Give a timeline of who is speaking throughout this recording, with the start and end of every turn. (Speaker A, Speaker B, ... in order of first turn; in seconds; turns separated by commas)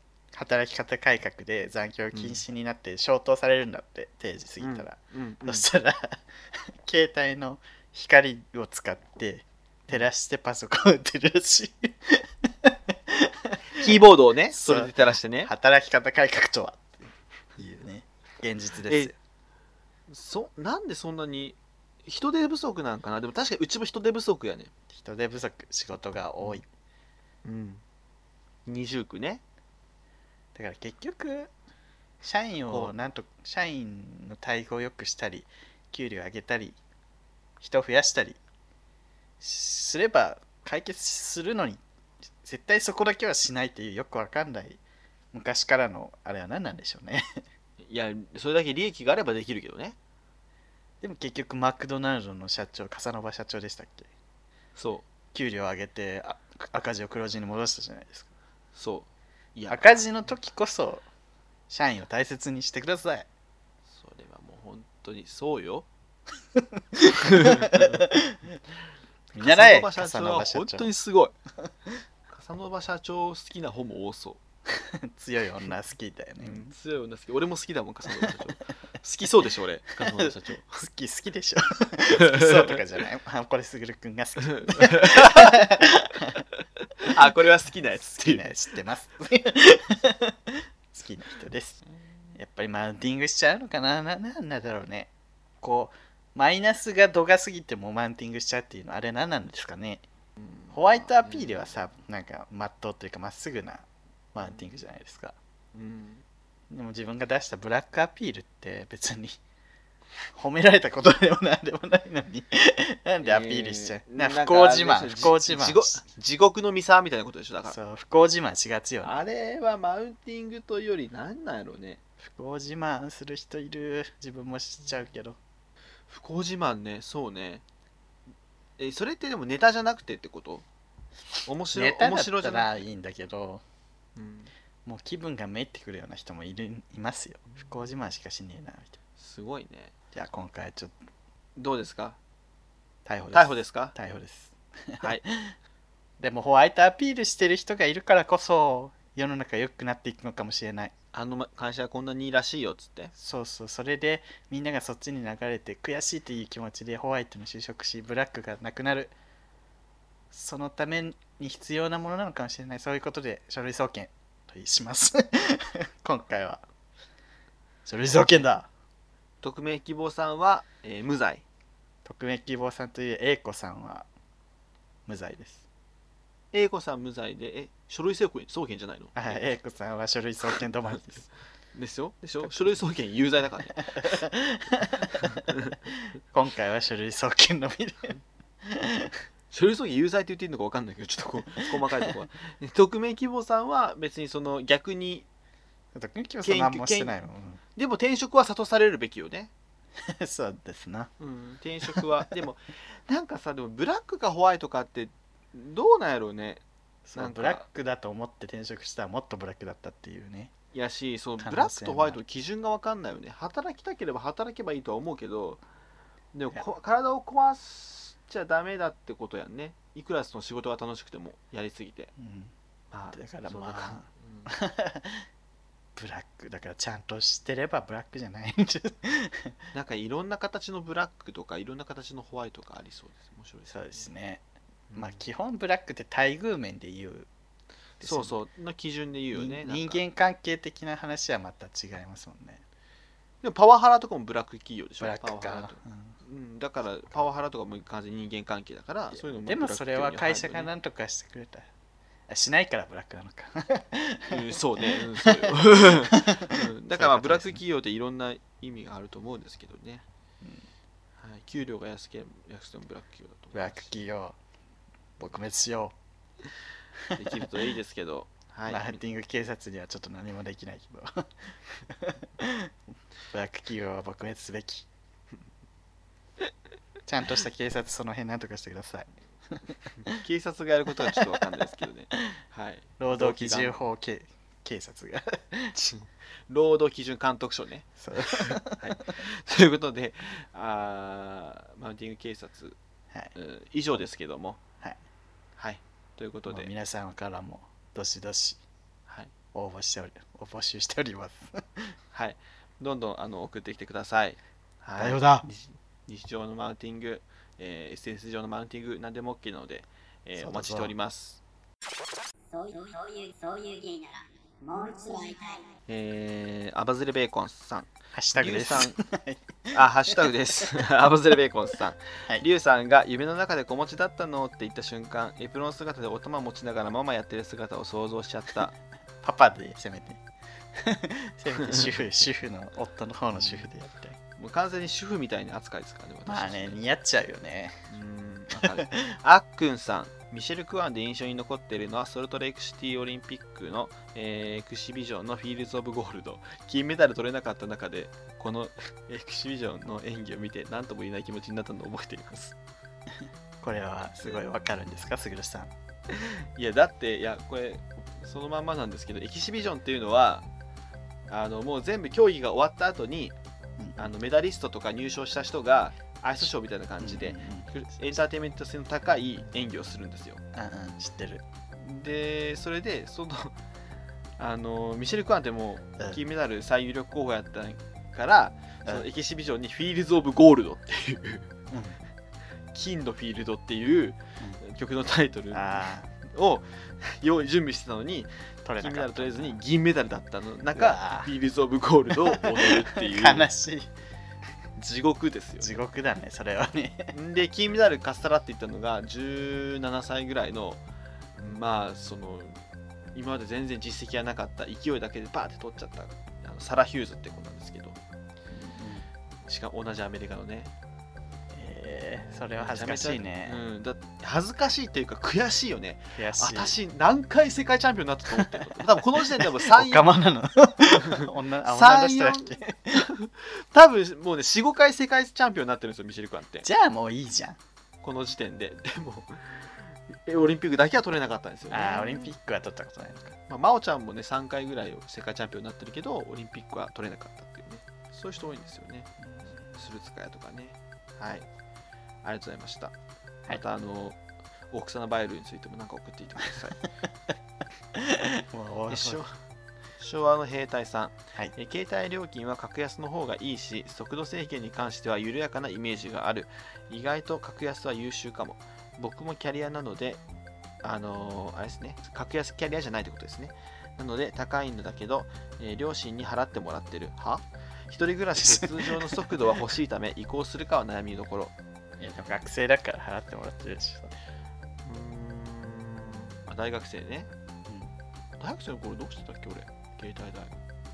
Speaker A: 0.3-14.0, Speaker B: 2.1-2.4, Speaker B: 4.6-5.7, Speaker B: 13.8-15.5, Speaker A: 14.5-14.9, Speaker A: 15.4-19.2, Speaker B: 20.1-24.7, Speaker A: 24.9-26.6, Speaker B: 27.4-27.8, Speaker B: 28.7-29.4, Speaker A: 30.6-31.5, Speaker A: 32.2-36.8, Speaker A: 37.6-38.4, Speaker A: 39.4-41.8, Speaker A: 42.4-44.8, Speaker A: 45.3-47.2, Speaker B: 47.8-50.0, Speaker A: 51.0-54.1, Speaker B: 54.8-55.0, Speaker A: 55.3-58.3, Speaker B: 58.8-60.0, Speaker A: 59.7-61.1, Speaker A: 61.7-63.3, Speaker B: 63.9-65.9, Speaker A: 66.5-68.4, Speaker B: 67.2-68.0, Speaker A: 69.3-70.9, Speaker B: 69.4-71.3, Speaker B: 72.3-74.4, Speaker A: 74.7-76.7, Speaker B: 76.4-80.8, Speaker A: 80.0-86.4, Speaker B: 82.2-82.7, Speaker B: 84.5-85.6, Speaker B: 87.0-88.5, Speaker A: 88.0-91.8, Speaker A: 92.3-95.1, Speaker A: 95.6-100.0, Speaker B: 100.4-101.5, Speaker A: 100.7-105.3, Speaker B: 105.7-106.2, Speaker A: 106.7-109.4, Speaker A: 110.3-116.0, Speaker B: 113.2-117.8, Speaker A: 117.7-119.2, Speaker B: 119.0-122.0, Speaker A: 122.2-125.4, Speaker B: 126.1-127.6, Speaker B: 128.8-130.7, Speaker B: 131.4-132.8, Speaker A: 131.7-133.6, Speaker B: 134.2-134.5, Speaker A: 134.9-139.0, Speaker B: 139.2-139.9, Speaker A: 140.1-141.0, Speaker B: 141.6-142.2, Speaker A: 143.1-145.5, Speaker B: 143.3-143.9, Speaker A: 146.2-150.9, Speaker B: 151.1-153.1, Speaker A: 153.2-159.1, Speaker A: 160.3-166.6, Speaker A: 167.9-168.7, Speaker B: 169.4-171.4, Speaker A: 172.1-174.1, Speaker A: 175.1-175.6, Speaker B: 176.5-179.4, Speaker A: 179.2-181.3, Speaker B: 181.7-184.1, Speaker A: 183.9-185.2, Speaker B: 185.1-185.8, Speaker A: 186.3-189.2, Speaker B: 189.5-195.3, Speaker A: 191.8-192.1, Speaker A: 195.9-197.6, Speaker B: 196.4-197.1, Speaker B: 197.8-199.5, Speaker A: 200.0-201.1, Speaker B: 201.2-206.6, Speaker A: 207.1-210.5, Speaker B: 207.2-207.7, Speaker B: 210.7-215.6, Speaker A: 211.4-212.2, Speaker B: 216.3-222.1, Speaker A: 222.2-222.5, Speaker B: 222.9-224.5, Speaker A: 223.1-225.3, Speaker A: 226.0-229.6, Speaker B: 229.7-234.1, Speaker A: 233.7-234.4, Speaker B: 234.9-235.2, Speaker A: 234.9-237.3, Speaker A: 238.0-238.4, Speaker B: 238.0-240.0, Speaker A: 239.3-242.6, Speaker B: 243.4-250.7, Speaker A: 245.0-246.1, Speaker A: 249.3-251.7, Speaker A: 252.3-254.4, Speaker B: 254.3-260.1, Speaker A: 254.9-257.6, Speaker B: 261.2-263.9, Speaker A: 263.5-264.4, Speaker A: 265.2-266.0, Speaker A: 267.1-267.6, Speaker B: 267.1-269.0, Speaker A: 268.7-272.7, Speaker A: 273.3-274.9, Speaker A: 277.1-279.1, Speaker B: 280.0-283.8, Speaker A: 281.0-281.4, Speaker A: 283.0-285.7, Speaker B: 285.8-292.8, Speaker A: 288.0-288.8, Speaker B: 293.4-294.6, Speaker B: 295.6-296.7, Speaker A: 296.5-298.6, Speaker A: 299.5-301.9, Speaker B: 302.1-311.4, Speaker A: 305.0-305.5, Speaker A: 310.4-310.9, Speaker C: 312.5-315.8, Speaker B: 315.9-319.0, Speaker A: 318.1-320.3, Speaker B: 319.7-328.7, Speaker A: 329.2-330.2, Speaker A: 330.8-334.2, Speaker B: 333.4-333.7, Speaker B: 334.4-336.8, Speaker A: 336.3-337.8, Speaker B: 337.9-352.6, Speaker A: 338.6-339.1, Speaker A: 353.6-355.7, Speaker B: 356.1-360.4, Speaker B: 361.3-363.4, Speaker A: 363.8-364.1, Speaker B: 364.0-370.4, Speaker A: 367.0-367.7, Speaker A: 370.5-371.4, Speaker B: 371.8-373.6, Speaker B: 374.4-381.5, Speaker A: 381.7-382.0, Speaker B: 382.7-393.5, Speaker A: 385.5-386.1, Speaker A: 388.6-389.6, Speaker A: 390.7-391.3, Speaker A: 392.2-393.9, Speaker B: 394.8-395.8, Speaker A: 395.6-397.1, Speaker B: 397.1-400.8, Speaker B: 401.4-402.6, Speaker B: 403.1-408.0, Speaker A: 408.6-409.1, Speaker B: 409.5-410.7, Speaker A: 411.5-413.6, Speaker B: 412.6-420.1, Speaker A: 416.2-416.8, Speaker A: 418.3-423.1, Speaker B: 420.9-426.7, Speaker A: 426.6-427.6, Speaker B: 428.0-432.3, Speaker A: 431.7-433.4, Speaker B: 433.5-439.1, Speaker A: 439.2-439.8, Speaker B: 439.7-441.5, Speaker B: 442.2-442.9, Speaker B: 443.5-444.2, Speaker B: 444.7-446.9, Speaker A: 447.9-449.2, Speaker B: 448.9-449.4, Speaker B: 450.0-460.2, Speaker B: 460.8-471.5, Speaker A: 468.4-469.2, Speaker A: 472.0-474.2, Speaker B: 474.9-477.3, Speaker B: 478.4-480.6